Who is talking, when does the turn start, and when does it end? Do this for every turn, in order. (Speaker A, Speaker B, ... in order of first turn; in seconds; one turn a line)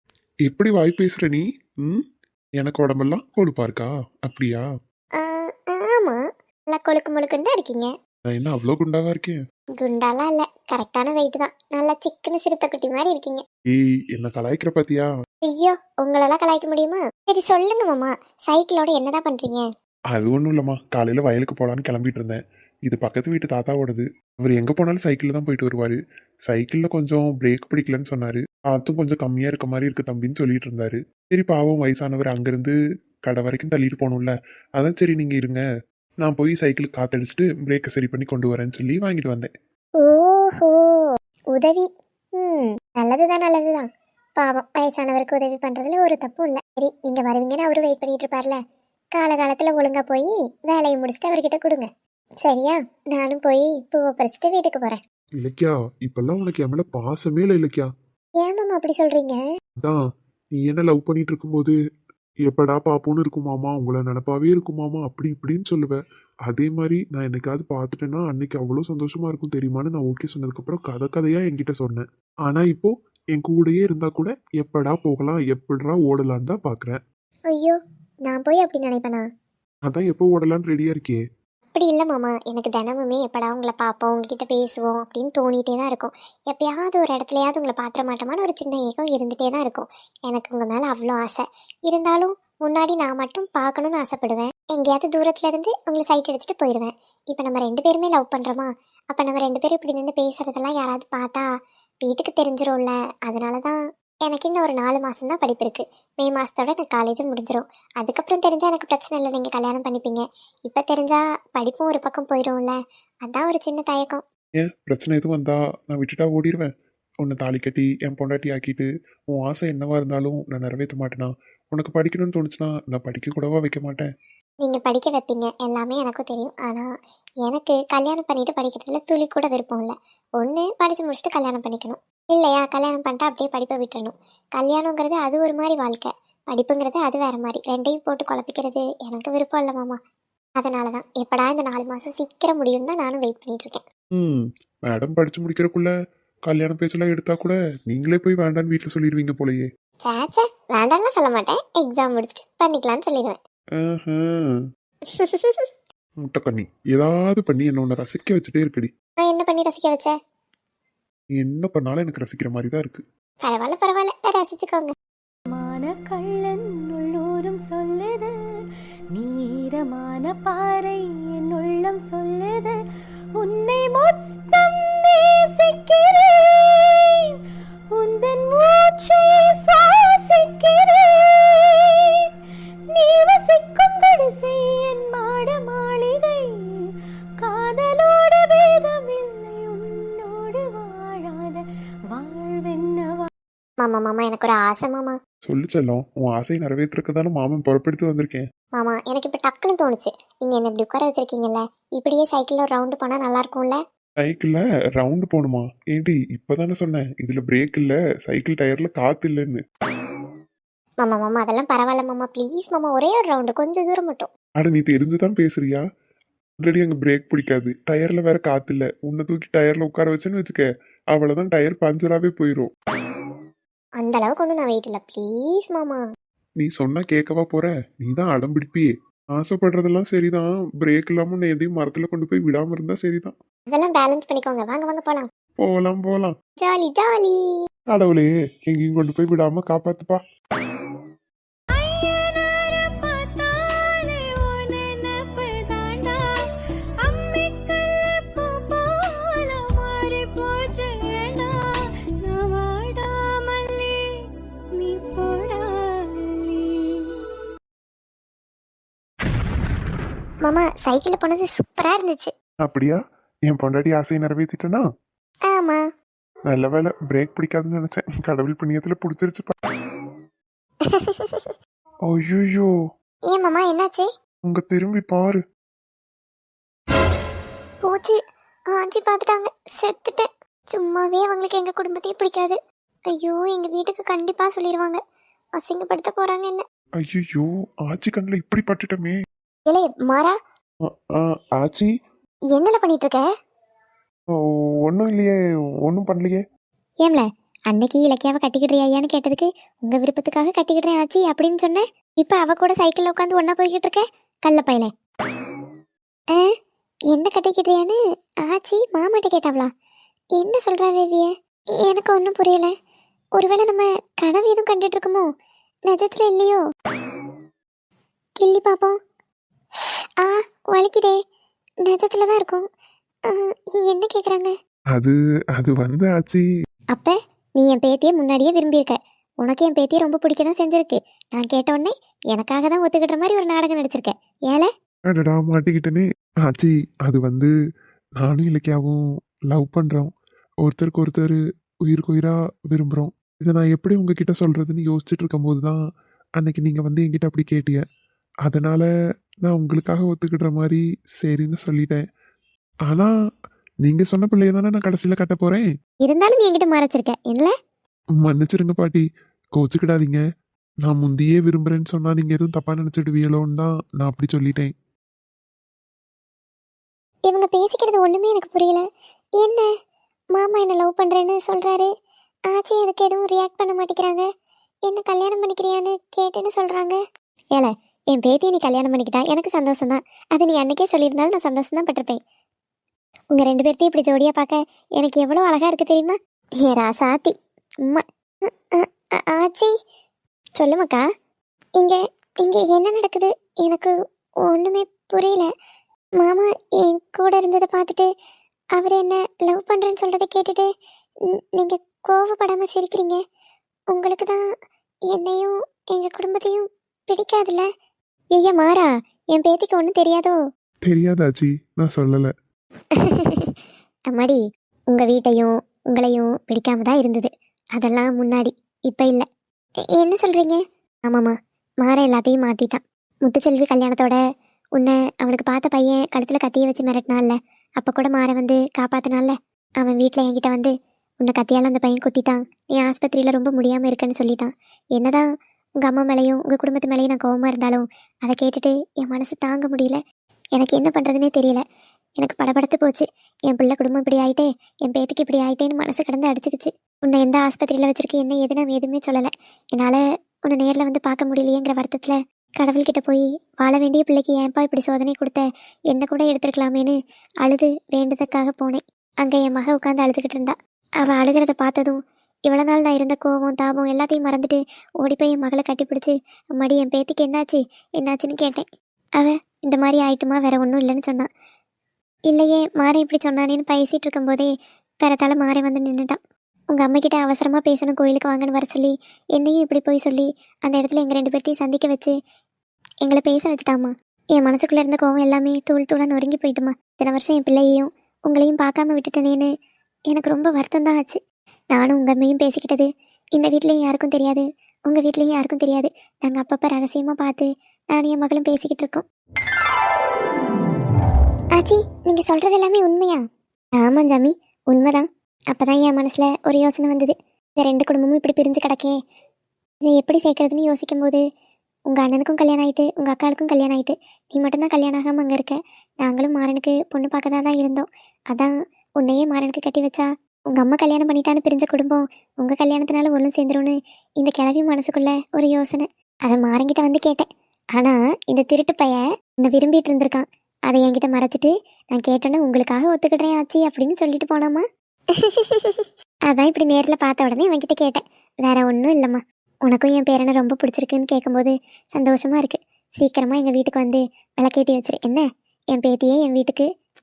Speaker A: 0.4-2.0
Speaker A: 2.6-4.7
Speaker B: 5.2-7.9
Speaker A: 8.3-9.4
Speaker B: 9.8-13.4
Speaker A: 13.7-15.1
Speaker B: 15.4-19.7
Speaker A: 20.1-32.8
Speaker A: 33.2-35.6
Speaker A: 36.2-39.5
Speaker B: 40.0-43.9
Speaker B: 44.4-48.6
Speaker B: 49.2-51.9
Speaker B: 52.4-55.0
Speaker A: 55.4-57.9
Speaker B: 58.4-59.4
Speaker A: 60.5-61.7
Speaker A: 62.5-77.0
Speaker B: 77.5-79.2
Speaker A: 79.9-81.2
Speaker B: 81.7-101.5
Speaker B: 102.0-114.2
Speaker A: 114.6-116.7
Speaker A: 117.2-124.1
Speaker B: 124.6-126.9
Speaker B: 127.4-140.0
Speaker B: 140.6-143.8
Speaker A: 144.1-145.9
Speaker A: 146.4-149.7
Speaker B: 150.1-153.4
Speaker A: 153.8-154.6
Speaker B: 155.1-155.7
Speaker A: 156.2-158.9
Speaker B: 159.2-160.1
Speaker A: 161.4-163.0
Speaker B: 163.4-164.9
Speaker C: 165.5-168.3
Speaker C: 169.1-172.7
Speaker C: 173.4-177.4
Speaker C: 177.9-182.2
Speaker C: 182.9-186.8
Speaker C: 187.4-191.6
Speaker C: 192.1-193.3
Speaker B: 193.8-195.2
Speaker A: 195.4-198.4
Speaker B: 198.8-203.8
Speaker A: 204.2-209.6
Speaker B: 211.0-214.3
Speaker A: 214.6-215.8
Speaker A: 216.6-222.7
Speaker B: 224.0-226.0
Speaker A: 226.6-233.3
Speaker B: 233.7-235.2
Speaker A: 235.6-236.3
Speaker B: 236.6-237.4
Speaker A: 237.9-240.2
Speaker C: 241.8-246.5
Speaker C: 247.0-254.2
Speaker C: 254.8-257.2
Speaker B: 260.4-262.3
Speaker A: 262.6-264.8
Speaker B: 265.5-265.8
Speaker A: 266.5-269.5
Speaker B: 270.9-271.5
Speaker A: 272.1-272.7
Speaker B: 273.3-274.1
Speaker A: 274.5-275.4
Speaker B: 277.8-278.2
Speaker B: 278.7-282.6
Speaker B: 283.1-285.0
Speaker B: 285.6-286.6
Speaker A: 287.0-289.1
Speaker B: 289.7-290.4
Speaker A: 291.1-291.9
Speaker B: 292.5-293.2
Speaker A: 294.9-295.4
Speaker A: 295.9-296.4
Speaker B: 297.0-304.9
Speaker B: 307.1-309.7
Speaker B: 310.4-312.7
Speaker B: 313.4-315.3
Speaker B: 315.9-316.6
Speaker B: 318.4-319.0
Speaker B: 320.2-321.2
Speaker B: 321.9-322.6
Speaker B: 323.3-324.5
Speaker A: 324.9-326.4
Speaker B: 326.9-334.7
Speaker A: 335.1-337.5
Speaker A: 338.2-340.1
Speaker A: 340.6-345.8
Speaker A: 346.4-347.8
Speaker A: 348.4-348.9
Speaker A: 349.4-352.0
Speaker A: 353.8-355.6
Speaker B: 356.0-357.5
Speaker A: 358.2-359.1
Speaker A: 359.6-360.2
Speaker A: 360.8-364.7
Speaker B: 367.3-368.8
Speaker B: 369.4-369.7
Speaker B: 370.4-371.9
Speaker B: 372.5-374.3
Speaker B: 374.9-377.0
Speaker B: 377.5-382.2
Speaker B: 383.3-387.3
Speaker B: 388.6-389.7
Speaker B: 390.6-391.0
Speaker B: 391.8-393.9
Speaker B: 394.5-395.5
Speaker B: 396.2-398.1
Speaker B: 398.8-400.7
Speaker B: 401.3-403.2
Speaker B: 403.9-404.4
Speaker B: 405.1-407.7
Speaker B: 408.3-410.4
Speaker A: 410.9-412.3
Speaker B: 412.9-413.6
Speaker B: 414.1-414.4
Speaker B: 414.9-419.2
Speaker B: 419.9-424.2
Speaker B: 424.8-435.3
Speaker B: 435.8-440.0
Speaker B: 440.6-441.6
Speaker B: 442.2-468.7
Speaker B: 469.2-471.3
Speaker B: 472.3-474.5
Speaker B: 475.0-476.2
Speaker B: 476.8-482.1
Speaker B: 483.1-489.5
Speaker B: 490.1-491.2
Speaker B: 491.7-499.1
Speaker B: 501.6-503.2
Speaker B: 503.8-508.9
Speaker B: 509.9-511.2
Speaker B: 511.9-534.6
Speaker B: 535.1-546.6